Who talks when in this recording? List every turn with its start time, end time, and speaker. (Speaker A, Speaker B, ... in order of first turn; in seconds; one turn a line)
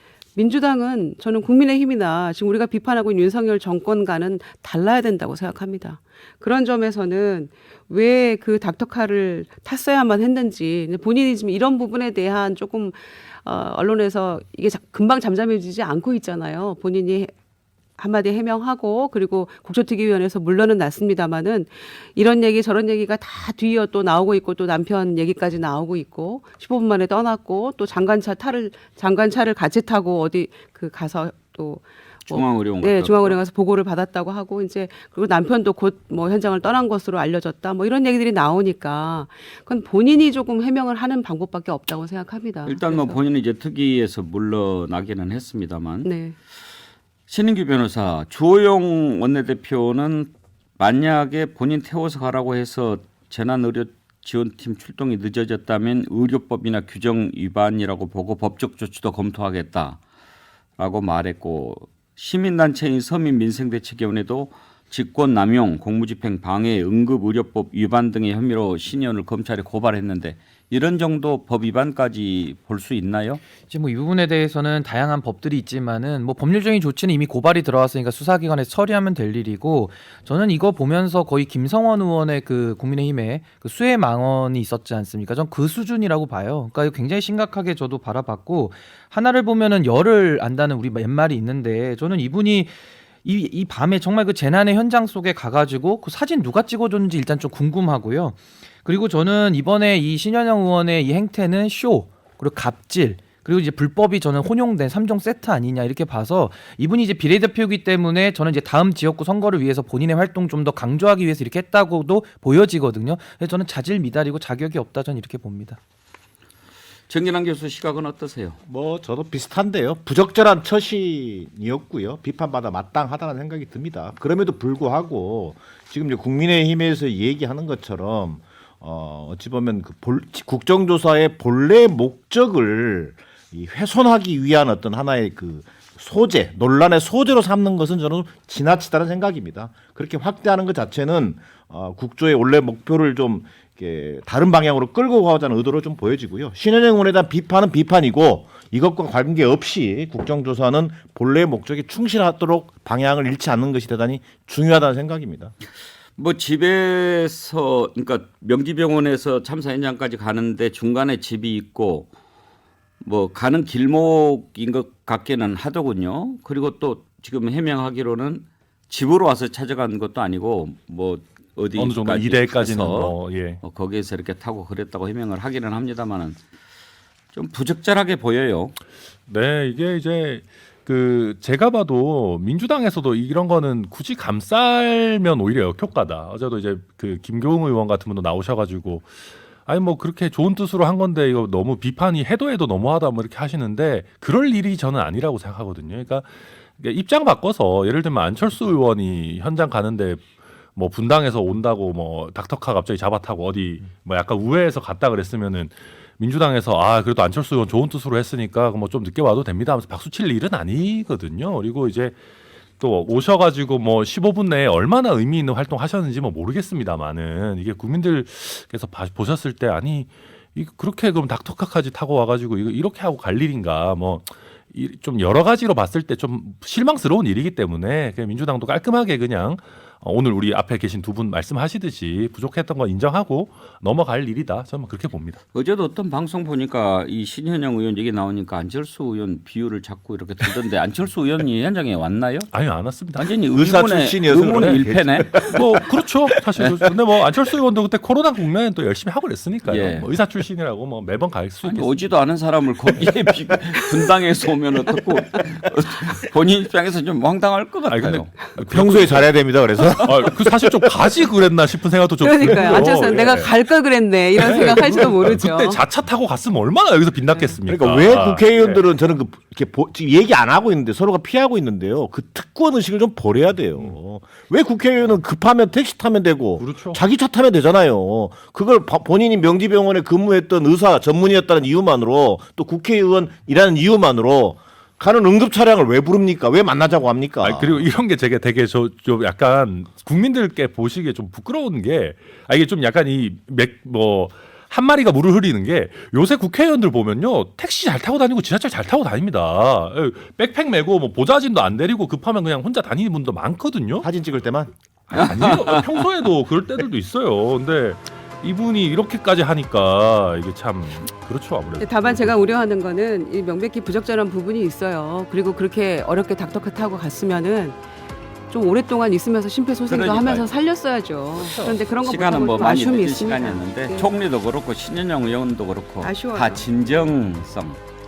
Speaker A: 0.3-17.3
Speaker A: 18.0-43.2
Speaker B: 32.3-33.4
Speaker B: 42.6-46.1
Speaker A: 46.0-46.3
Speaker B: 47.3-60.0
Speaker B: 60.8-73.4
Speaker C: 73.7-115.8
Speaker B: 117.1-118.6
Speaker D: 118.7-155.5
Speaker B: 156.2-162.1
Speaker B: 163.0-176.4
Speaker E: 171.8-173.6
Speaker B: 177.3-178.8
Speaker E: 179.3-189.1
Speaker E: 189.6-212.2
Speaker E: 212.8-235.4
Speaker B: 235.5-242.5
Speaker E: 242.5-243.3
Speaker B: 243.2-245.6
Speaker D: 243.5-245.6
Speaker E: 244.5-244.8
Speaker E: 245.4-252.0
Speaker B: 249.7-250.1
Speaker B: 251.6-258.5
Speaker E: 257.9-259.3
Speaker D: 258.6-260.8
Speaker E: 260.0-263.6
Speaker A: 262.2-265.8
Speaker E: 264.3-268.8
Speaker D: 267.6-287.9
Speaker E: 276.6-277.0
Speaker E: 287.4-304.1
Speaker D: 304.0-304.7
Speaker E: 305.1-312.4
Speaker B: 305.2-305.9
Speaker A: 311.8-317.8
Speaker A: 318.5-324.1
Speaker B: 319.9-320.5
Speaker B: 322.0-327.8
Speaker A: 326.0-326.7